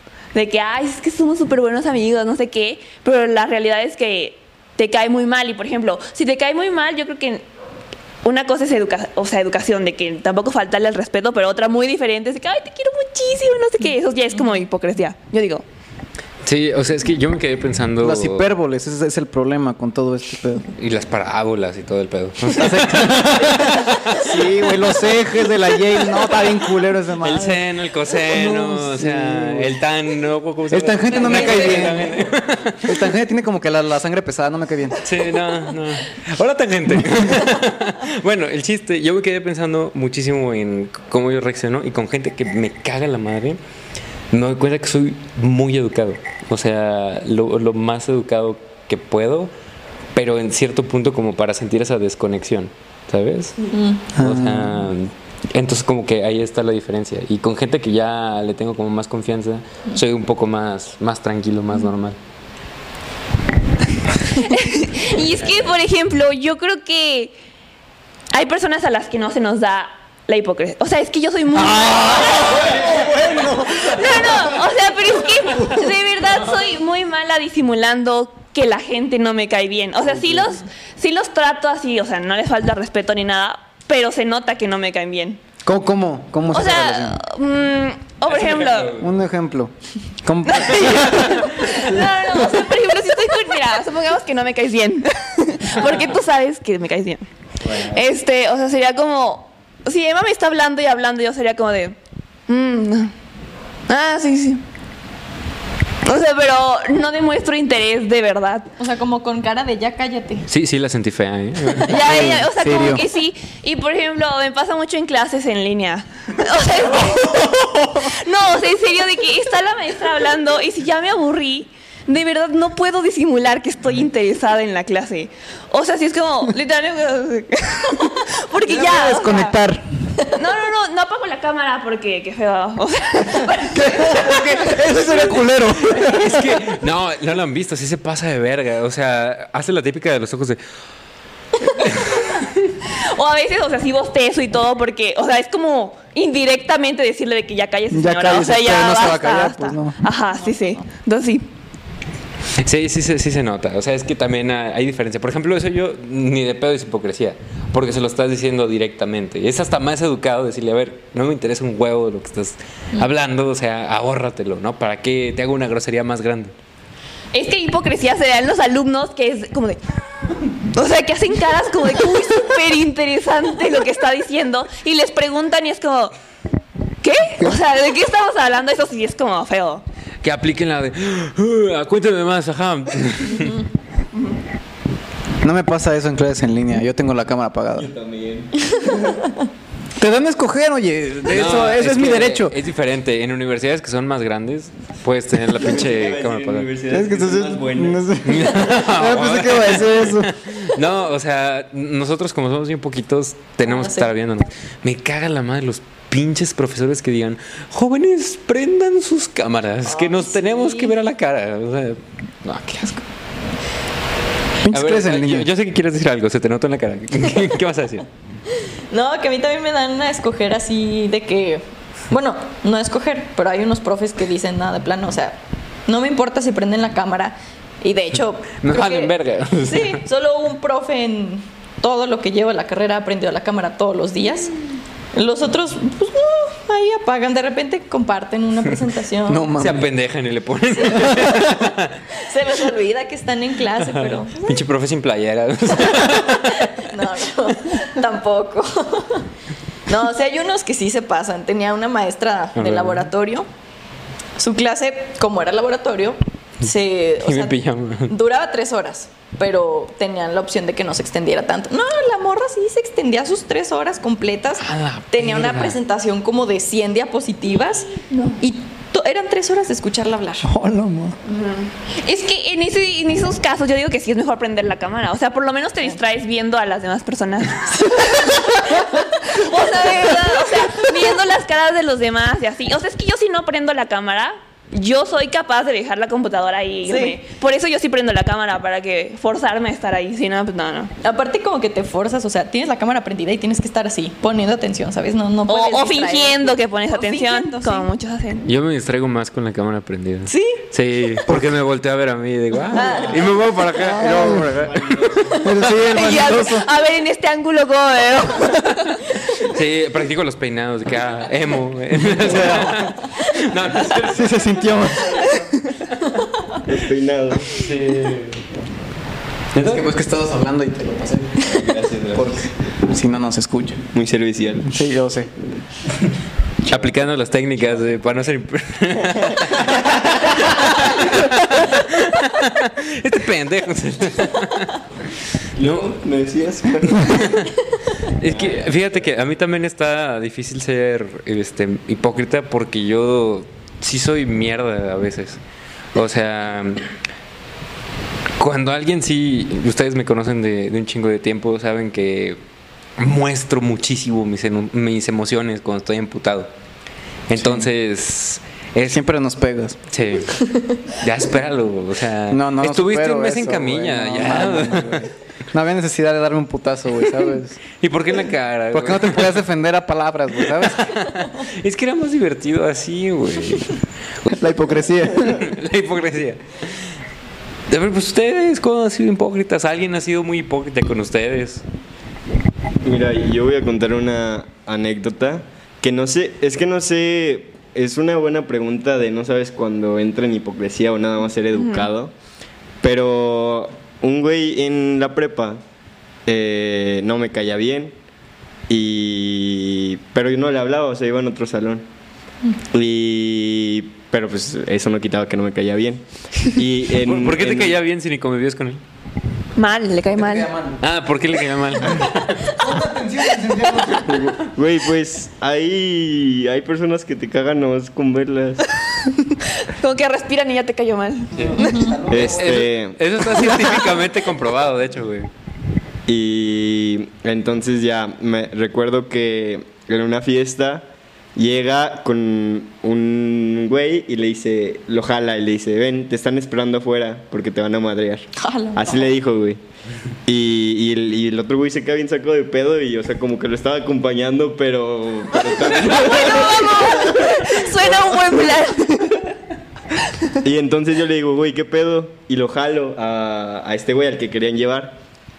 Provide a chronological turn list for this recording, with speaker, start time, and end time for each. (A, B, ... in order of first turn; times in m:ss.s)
0:00.3-0:07.4 A
0:08.2-0:15.6 A
0:16.4-0:18.5 B
0:18.0-0:20.7 C
0:20.8-0:24.8 B
0:22.5-0:27.6 C
0:27.2-0:33.1 B
0:28.2-0:29.7 C
0:30.7-0:32.2 C
0:31.3-0:31.8 A
0:32.8-0:35.0 C
0:35.0-0:43.6 B
0:44.3-0:49.5 B
0:50.1-0:53.6 B
0:53.7-0:54.0 D
0:54.2-0:54.9 C
0:54.2-1:02.2 B
1:04.3-1:07.3 A
1:08.3-1:25.4 A
1:11.6-1:15.9 C
1:25.6-1:27.2 C
1:26.5-1:29.0 A
1:28.3-1:29.1 B
1:29.0-1:31.8 C
1:30.4-1:42.0 A
1:37.6-1:37.9 B
1:42.5-1:43.1 A
1:43.9-1:44.6 A
1:46.0-1:48.7 A
1:48.8-1:50.5 D
1:50.5-1:52.0 B
1:51.8-2:09.6 A
1:52.0-1:53.0 C
1:57.4-1:58.1 C
2:08.6-2:09.8 C
2:10.3-2:15.4 A
2:13.7-2:16.6 C
2:15.8-2:20.6 B
2:21.7-2:22.2 A
2:21.8-2:22.7 B
2:22.8-2:31.5 A
2:27.9-2:30.0 C
2:32.6-2:46.5 B
2:47.3-2:49.8 A
2:50.7-2:56.1 A
2:57.0-2:59.8 A
3:00.2-3:03.6 B
3:05.4-3:07.9 C
3:07.8-3:08.9 E
3:10.0-3:12.5 C
3:11.2-3:16.7 B
3:15.5-3:18.2 E
3:16.9-3:20.3 C
3:18.2-3:33.0 B
3:23.6-3:24.1 D
3:29.9-3:30.9 D
3:34.6-3:35.5 C
3:34.7-3:38.1 B
3:38.6-3:49.1 D
3:48.6-3:50.0 B
3:49.6-3:54.5 D
3:55.1-3:59.5 D
3:59.3-3:59.9 C
3:59.6-4:02.0 B
4:00.7-4:01.4 D
4:02.1-4:04.6 D
4:03.8-4:07.0 B
4:05.9-4:09.3 D
4:09.9-4:13.5 D
4:12.5-4:13.1 B
4:14.4-4:30.5 D
4:17.2-4:18.1 B
4:24.6-4:25.8 B
4:28.1-4:28.4 A
4:30.4-4:31.2 C
4:31.2-4:50.9 A
4:46.8-4:47.2 D
4:51.0-4:57.9 D
4:55.5-4:58.4 A
4:58.4-5:05.8 B
5:00.3-5:00.6 D
5:01.3-5:01.6 C
5:02.7-5:03.3 D
5:02.9-5:03.6 E
5:03.8-5:04.8 C
5:04.2-5:05.4 E
5:05.4-5:06.7 C
5:05.8-5:09.0 A
5:09.4-5:14.7 B
5:12.0-5:12.9 C
5:14.0-5:15.4 C
5:16.6-5:17.5 E
5:17.5-5:18.4 B
5:19.5-5:19.9 B
5:19.6-5:23.8 C
5:21.5-5:22.4 E
5:23.9-5:24.8 E
5:24.6-5:25.3 C
5:26.6-5:34.8 B
5:29.1-5:29.5 E
5:35.6-5:37.6 E
5:35.6-5:35.9 B
5:37.0-5:37.5 B
5:38.0-5:45.4 B
5:38.2-5:38.9 E
5:45.9-5:46.8 B
5:48.4-5:52.4 B
5:53.0-5:56.5 B
5:57.3-5:59.0 B
5:57.3-5:57.7 C
5:58.8-5:59.8 C
5:59.9-6:05.1 B
6:02.3-6:07.6 C
6:07.7-6:09.4 B
6:08.7-6:10.9 C
6:10.4-6:14.4 B
6:14.3-6:15.5 C
6:15.2-6:16.8 B
6:17.7-6:21.6 B
6:22.8-6:32.1 E
6:31.5-6:31.9 A
6:32.8-6:35.6 E
6:36.2-6:37.9 E
6:38.7-6:41.8 E
6:42.7-6:47.8 E
6:47.0-6:48.8 B
6:49.6-6:50.5 A
6:50.1-6:50.8 C
6:50.8-6:52.6 B
6:52.5-6:54.3 C
6:54.0-6:59.0 E
6:59.4-7:01.5 A
7:01.4-7:02.7 C
7:01.6-7:02.0 D
7:02.1-7:03.6 E
7:02.1-7:05.3 B
7:06.1-7:19.6 E
7:18.4-7:19.0 D
7:20.2-7:28.4 E
7:25.8-7:29.2 A
7:30.4-7:35.0 E